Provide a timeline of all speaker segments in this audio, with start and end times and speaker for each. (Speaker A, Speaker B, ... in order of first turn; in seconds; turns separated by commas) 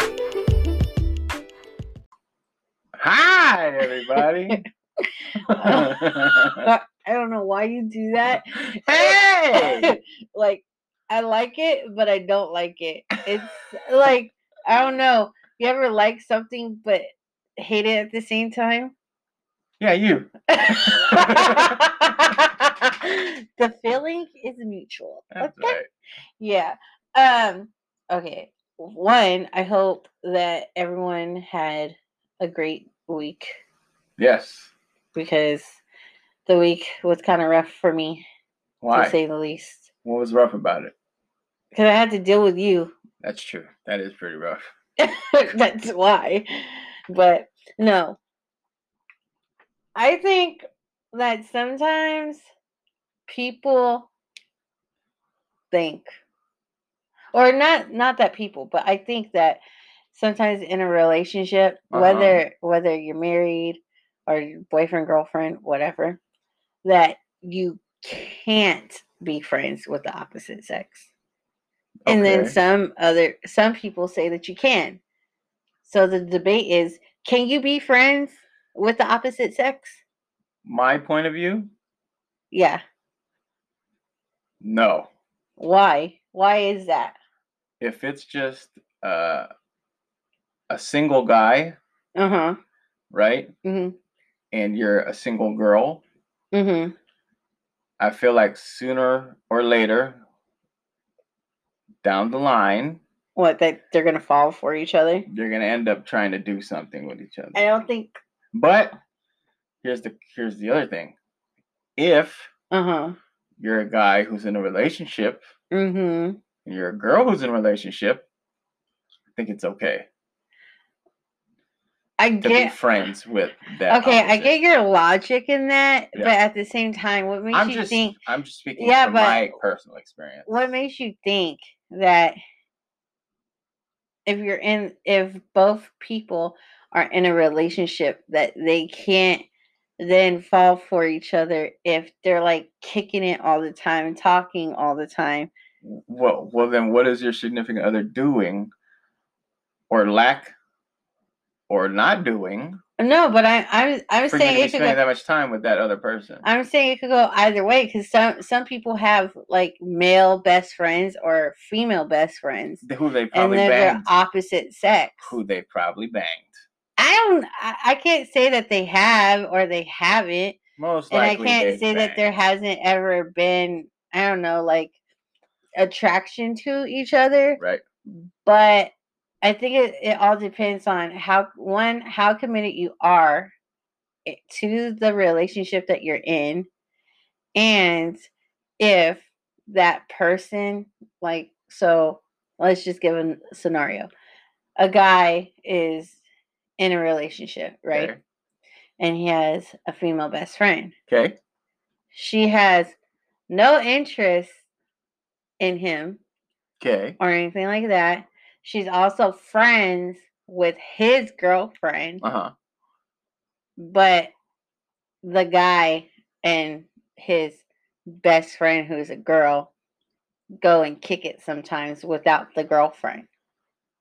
Speaker A: 3.0-4.6, Speaker B: 4.1-17.1, Speaker A: 5.4-6.7, Speaker A: 8.2-9.9, Speaker B: 17.6-18.9, Speaker A: 19.8-21.9, Speaker B: 20.5-25.8, Speaker A: 25.3-25.9, Speaker B: 26.4-33.5, Speaker A: 34.2-34.7, Speaker B: 35.1-35.8, Speaker B: 36.5-38.2, Speaker A: 38.8-39.2, Speaker B: 38.9-39.9, Speaker A: 40.0-40.9, Speaker B: 41.7-42.9, Speaker A: 43.2-44.6, Speaker B: 45.0-48.2, Speaker B: 50.0-52.5, Speaker B: 53.3-54.1, Speaker B: 55.7-56.1, Speaker B: 57.3-59.6, Speaker B: 60.1-66.2, Speaker A: 61.9-62.4, Speaker B: 66.8-71.1, Speaker A: 72.1-72.6, Speaker B: 72.1-75.0, Speaker B: 75.8-80.0, Speaker A: 80.7-81.7, Speaker B: 82.5-82.8, Speaker A: 84.6-85.1, Speaker B: 85.6-87.2, Speaker A: 87.8-89.5, Speaker A: 90.7-91.8, Speaker B: 92.2-92.6, Speaker A: 93.1-93.5, Speaker B: 93.6-94.0, Speaker A: 94.5-96.0, Speaker B: 96.5-96.9, Speaker A: 98.0-100.2, Speaker A: 102.0-103.0, Speaker B: 103.4-105.3, Speaker A: 105.3-107.7, Speaker B: 107.5-108.2, Speaker A: 108.5-109.0, Speaker A: 109.8-111.2, Speaker A: 112.0-112.5, Speaker B: 112.7-113.2, Speaker A: 113.6-115.4, Speaker B: 115.7-116.4, Speaker A: 116.7-118.2, Speaker A: 119.3-120.1, Speaker B: 122.2-122.8, Speaker A: 122.4-124.5, Speaker B: 123.9-128.2, Speaker A: 127.5-130.5, Speaker B: 128.8-129.5, Speaker B: 130.5-132.4, Speaker B: 134.2-139.5, Speaker B: 140.0-145.5, Speaker A: 145.8-148.7, Speaker A: 149.9-150.5, Speaker A: 151.7-152.8, Speaker B: 153.0-155.0, Speaker A: 154.3-156.4, Speaker B: 156.4-165.3, Speaker A: 162.8-164.1, Speaker A: 165.2-166.5, Speaker B: 167.0-170.6, Speaker A: 170.8-172.4, Speaker B: 171.1-174.9, Speaker B: 175.8-177.6, Speaker B: 178.4-183.5, Speaker B: 184.2-186.7, Speaker B: 187.6-188.3, Speaker B: 188.8-194.1, Speaker B: 194.8-196.2, Speaker B: 196.8-198.1, Speaker A: 197.9-198.2, Speaker B: 199.0-200.9, Speaker A: 201.1-201.4, Speaker B: 202.1-202.9, Speaker B: 203.5-204.6, Speaker B: 205.6-206.2, Speaker A: 206.8-207.2, Speaker B: 207.2-212.2, Speaker A: 212.2-212.5, Speaker B: 213.8-214.3, Speaker B: 215.2-219.7, Speaker B: 220.6-223.3